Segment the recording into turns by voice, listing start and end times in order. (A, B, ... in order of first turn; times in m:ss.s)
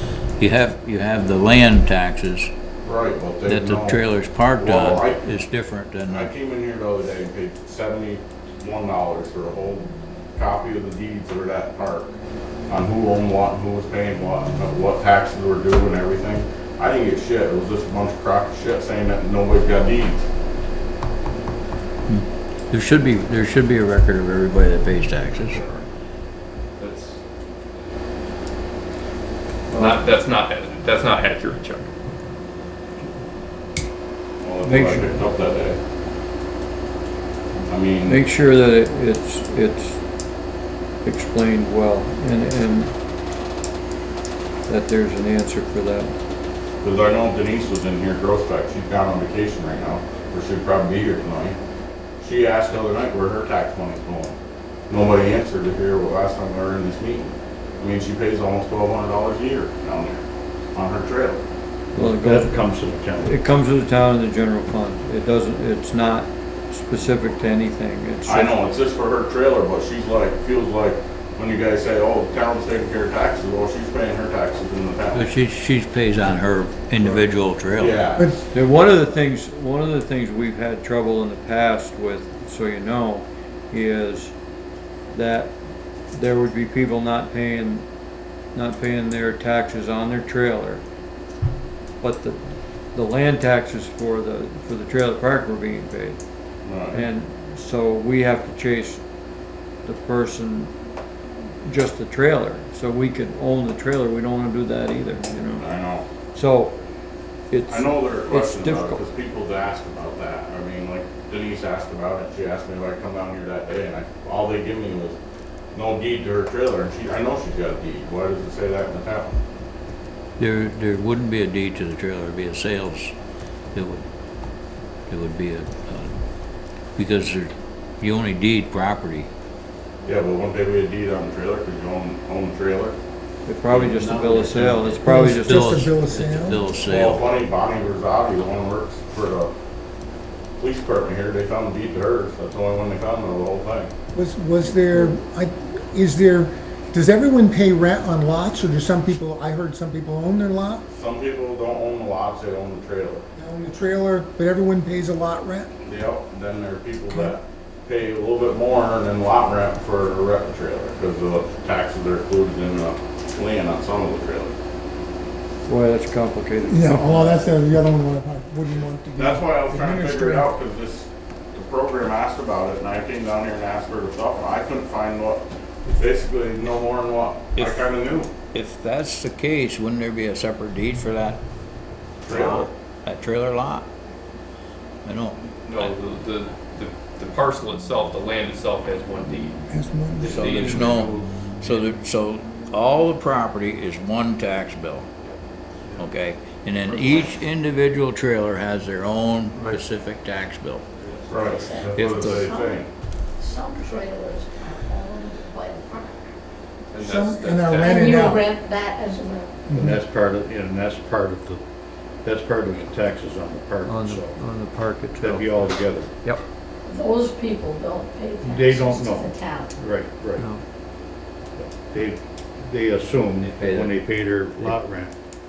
0:00.4-0:02.5 A
0:02.8-0:04.0 B
0:03.4-0:06.3 A
0:04.6-0:05.2 B
0:06.1-0:12.2 B
0:12.7-0:20.2 B
0:22.1-0:25.6 A
0:25.5-0:25.8 B
0:26.8-0:27.2 C
0:29.7-0:31.9 C
0:29.7-0:30.2 D
0:34.4-0:35.8 B
0:34.6-0:35.2 D
0:37.7-0:38.2 B
0:38.0-0:40.0 D
0:41.0-0:42.9 D
0:44.6-0:46.1 D
0:46.8-0:51.6 B
0:52.2-0:54.4 B
0:54.9-1:00.2 B
1:00.7-1:01.4 B
1:01.9-1:02.7 D
1:01.9-1:03.4 E
1:03.2-1:08.6 D
1:08.2-1:15.3 B
1:15.1-1:18.1 A
1:17.0-1:17.3 D
1:17.7-1:18.3 B
1:18.5-1:24.3 D
1:25.1-1:25.6 D
1:26.1-1:27.8 D
1:28.5-1:30.8 D
1:32.0-1:32.4 D
1:32.9-1:36.2 D
1:36.6-1:37.0 B
1:36.9-1:39.0 D
1:39.8-1:40.7 D
1:41.6-1:45.7 D
1:45.6-1:46.0 B
1:46.3-1:46.7 D
1:47.5-1:49.0 D
1:47.7-1:55.2 B
1:55.7-1:59.4 B
2:00.4-2:03.1 A
2:03.7-2:04.0 A
2:05.1-2:06.2 A
2:07.0-2:09.3 A
2:10.0-2:13.0 B
2:13.4-2:15.7 D
2:13.7-2:14.9 B
2:15.0-2:16.7 F
2:15.3-2:17.3 A
2:16.8-2:19.5 B
2:20.6-2:23.9 B
2:24.1-2:30.8 F
2:30.9-2:33.2 B
2:33.4-2:35.7 F
2:35.8-2:44.5 B
2:37.1-2:37.4 F
2:45.6-2:47.6 D
2:46.6-2:50.6 F
2:49.2-2:58.3 B
2:57.6-2:57.9 A
2:58.5-3:01.4 A
3:02.2-3:02.7 B
3:02.3-3:03.9 A
3:05.0-3:05.9 A
3:05.6-3:09.6 C
3:09.7-3:10.4 F
3:10.1-3:11.9 C
3:10.3-3:15.1 A
3:16.0-3:20.8 A
3:16.9-3:17.2 C
3:21.3-3:22.9 B
3:21.4-3:22.8 G
3:21.9-3:22.5 A
3:23.4-3:26.3 G
3:26.9-3:28.0 C
3:27.0-3:28.5 F
3:27.8-3:29.6 G
3:29.7-3:30.0 F
3:29.7-3:31.6 E
3:32.2-3:34.4 E
3:33.8-3:36.4 D
3:35.2-3:36.1 E
3:36.8-3:39.7 G
3:38.4-3:40.5 E
3:40.4-3:40.6 D
3:41.6-3:45.1 E
3:43.4-3:44.0 A